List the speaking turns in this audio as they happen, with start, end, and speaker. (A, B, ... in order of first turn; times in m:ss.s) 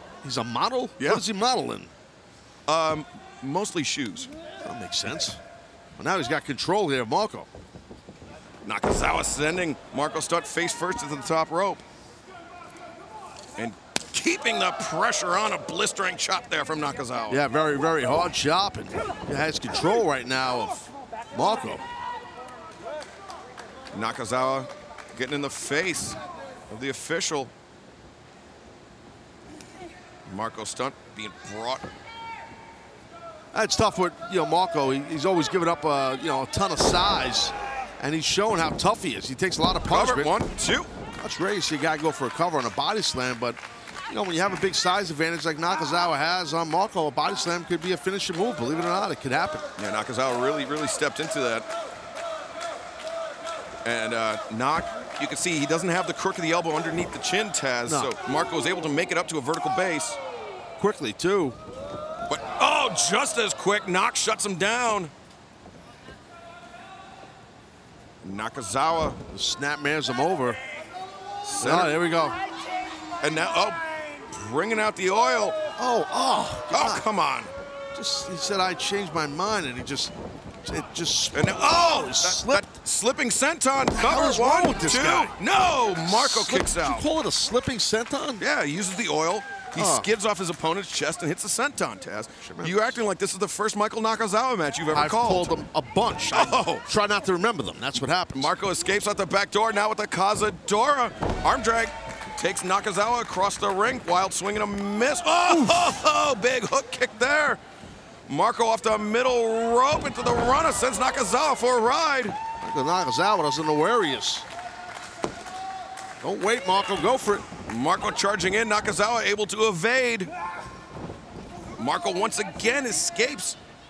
0:00.2-0:01.9 A
0:01.0-0:01.2 B
0:02.7-0:04.3 B
0:04.6-0:05.4 A
0:06.0-0:07.5 A
0:08.6-0:11.8 B
0:13.6-0:17.4 B
0:17.3-0:21.8 A
0:23.9-0:27.5 B
0:30.3-0:31.8 B
0:33.5-0:40.3 A
0:39.9-0:40.9 B
0:41.2-0:49.7 A
0:49.8-0:51.7 B
0:53.8-1:00.2 B
0:57.9-0:58.1 A
1:00.8-1:01.6 A
1:02.3-1:05.1 B
1:08.2-1:09.2 B
1:09.3-1:10.6 A
1:11.4-1:12.0 B
1:11.6-1:12.4 A
1:13.2-1:15.6 B
1:15.8-1:17.0 A
1:16.7-1:17.5 B
1:17.9-1:20.1 A
1:20.6-1:22.6 A
1:21.3-1:27.1 B
1:24.0-1:25.4 A
1:26.0-1:28.4 A
1:28.4-1:35.5 B
1:29.8-1:30.1 A
1:32.4-1:32.9 A
1:34.9-1:38.5 A
1:36.3-1:36.9 B
1:38.3-1:47.6 B
1:45.5-1:46.0 A
1:48.3-1:52.4 B
1:52.6-1:54.5 A
1:56.2-1:57.4 A
1:57.6-2:00.3 B
2:01.8-2:03.6 B